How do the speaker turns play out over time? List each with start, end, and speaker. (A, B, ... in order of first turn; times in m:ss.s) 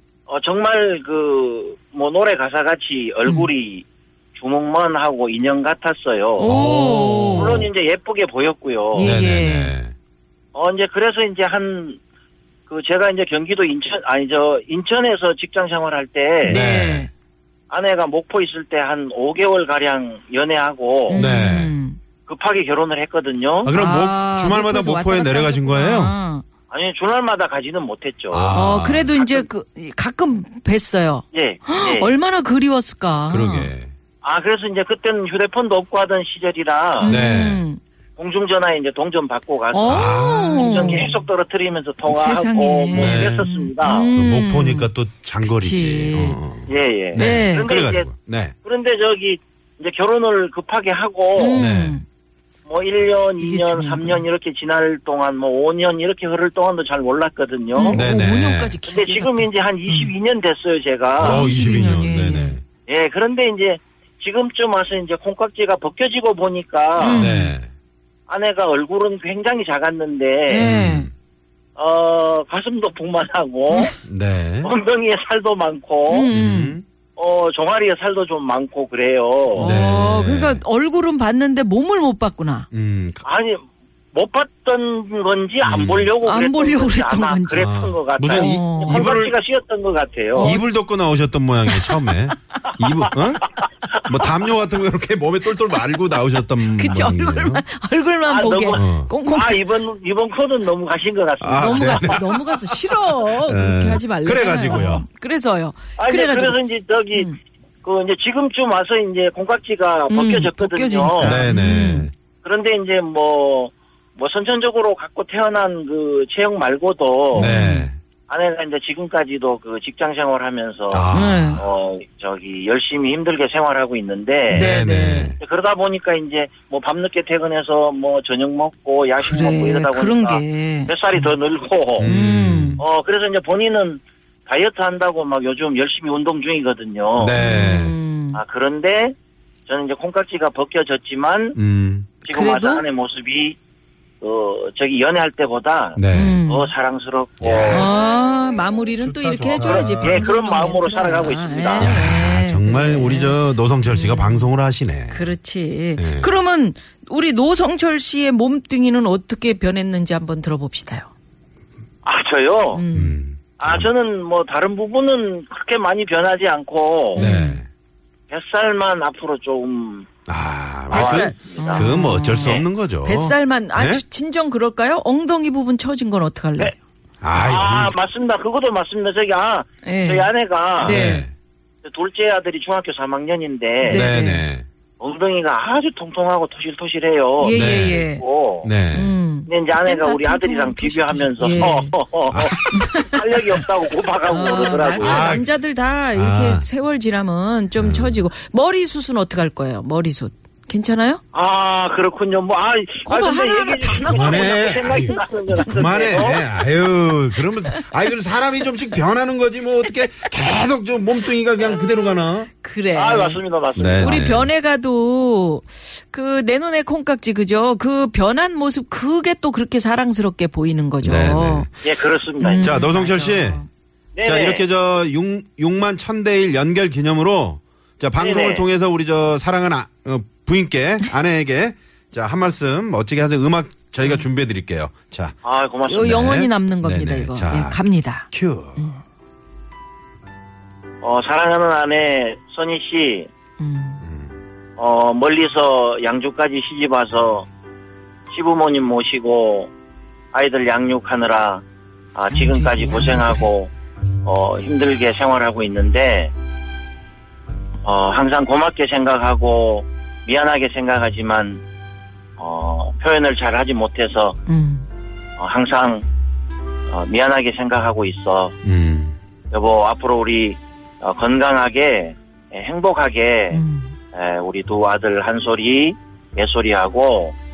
0:00.3-0:06.5 A
0:06.4-0:07.7 B
0:06.4-0:07.7 C
0:07.3-0:09.1 A
0:08.9-0:09.7 B
0:09.0-0:09.9 C
0:10.5-0:12.0 A
0:12.7-0:16.6 A
0:16.4-0:17.1 B
0:16.4-0:17.1 C
0:17.7-0:21.2 A
0:21.1-0:22.0 B
0:21.2-0:21.7 C
0:22.3-0:23.7 A
0:23.6-0:26.2 C
0:23.7-0:26.4 B
0:26.7-0:28.6 A
0:28.3-0:29.1 C
0:28.5-0:33.7 B
0:29.2-0:29.5 A
0:31.3-0:32.2 A
0:33.3-0:33.9 C
0:34.2-0:37.1 A
0:37.0-0:37.8 B
0:37.0-0:37.6 C
0:38.2-0:44.1 A
0:39.7-0:41.2 B
0:39.9-0:41.0 C
0:42.0-0:46.4 B
0:42.9-0:48.6 C
0:46.7-0:48.1 A
0:47.1-0:47.7 B
0:48.6-0:51.6 A
0:51.4-0:52.0 B
0:51.6-0:52.0 C
0:52.6-0:58.1 A
0:53.4-0:54.2 B
0:57.7-1:00.1 B
0:57.9-0:58.8 C
0:58.9-1:01.4 A
1:01.2-1:02.6 C
1:01.2-1:02.6 B
1:02.9-1:07.3 A
1:07.0-1:07.6 B
1:07.1-1:07.7 C
1:08.3-1:10.7 A
1:10.5-1:11.1 B
1:10.6-1:11.1 C
1:11.8-1:14.0 A
1:14.0-1:14.7 C
1:14.6-1:16.3 A
1:16.1-1:16.8 B
1:16.3-1:16.8 C
1:17.2-1:19.7 A
1:19.5-1:22.7 B
1:19.6-1:20.6 C
1:22.7-1:23.2 C
1:23.2-1:30.6 A
1:25.6-1:26.1 C
1:26.2-1:27.7 B
1:27.6-1:29.3 C
1:28.3-1:29.2 B
1:30.3-1:30.7 B
1:30.4-1:37.6 C
1:31.7-1:32.1 B
1:36.6-1:39.6 B
1:38.3-1:42.3 A
1:38.7-1:39.1 C
1:41.4-1:45.0 C
1:41.6-1:46.6 B
1:46.0-1:47.3 A
1:47.8-1:51.4 A
1:50.1-1:52.1 B
1:51.2-1:52.1 C
1:52.4-1:57.5 A
1:57.3-1:58.0 C
1:57.3-1:57.9 B
1:58.3-2:04.7 A
2:00.9-2:01.6 C
2:01.1-2:01.6 B
2:04.5-2:05.3 B
2:04.5-2:05.4 C
2:05.4-2:12.1 A
2:09.2-2:11.3 B
2:12.0-2:12.8 C
2:12.0-2:12.8 B
2:12.8-2:17.4 A
2:17.2-2:18.0 C
2:17.4-2:18.4 B
2:18.3-2:19.2 A
2:19.7-2:21.6 A
2:21.6-2:22.1 C
2:22.2-2:23.6 A
2:22.3-2:22.8 B
2:24.2-2:27.9 A
2:26.0-2:26.4 C
2:26.1-2:26.7 B
2:27.4-2:27.9 C
2:27.7-2:34.5 B
2:29.0-2:30.2 C
2:29.5-2:31.9 A
2:31.8-2:35.3 C
2:35.1-2:41.1 B
2:36.0-2:36.3 C
2:42.0-2:42.8 A
2:42.7-2:43.2 B
2:42.9-2:43.9 C
2:43.6-2:47.3 A
2:47.1-2:47.6 B
2:47.1-2:47.7 C
2:48.3-2:50.1 A
2:50.3-2:54.0 C
2:50.9-2:52.7 A
2:50.9-2:56.7 B
2:57.2-2:58.0 C
2:57.4-3:01.0 A
2:59.8-3:01.3 B
3:00.8-3:01.3 C
3:01.8-3:04.0 A
3:03.8-3:04.5 B
3:03.8-3:04.7 C
3:05.0-3:08.7 A
3:07.4-3:08.2 B
3:07.5-3:08.1 C
3:08.6-3:09.2 C
3:08.9-3:11.9 B
3:09.5-3:15.3 A
3:12.3-3:12.8 C
3:12.7-3:13.2 B
3:14.3-3:21.2 B
3:15.0-3:15.5 C
3:16.1-3:16.7 C
3:17.8-3:18.2 C
3:21.3-3:26.4 A
3:23.0-3:25.2 B
3:23.9-3:32.5 C
3:25.7-3:26.4 B
3:27.4-3:27.9 B
3:31.6-3:31.9 A
3:32.6-3:33.4 B
3:32.9-3:34.2 A
3:33.8-3:34.5 C
3:34.0-3:41.7 B
3:41.0-3:41.7 C
3:41.8-3:42.8 A
3:42.4-3:43.7 B
3:42.6-3:43.6 C
3:44.2-3:44.6 A
3:44.2-3:55.4 C
3:48.2-3:48.7 A
3:55.4-3:56.1 A
3:55.9-3:59.0 B
3:56.0-3:58.9 C
4:01.0-4:03.3 A
4:03.6-4:04.0 B
4:04.0-4:04.4 C
4:04.8-4:07.5 A
4:08.3-4:09.7 A
4:10.3-4:11.6 A
4:12.2-4:13.7 A
4:12.3-4:13.5 B
4:14.2-4:16.3 A
4:17.8-4:21.6 A
4:22.4-4:24.4 A
4:24.5-4:24.9 B
4:25.4-4:26.0 A
4:26.9-4:28.5 A
4:28.6-4:29.2 C
4:29.5-4:33.6 A
4:33.5-4:33.9 B
4:34.1-4:37.4 A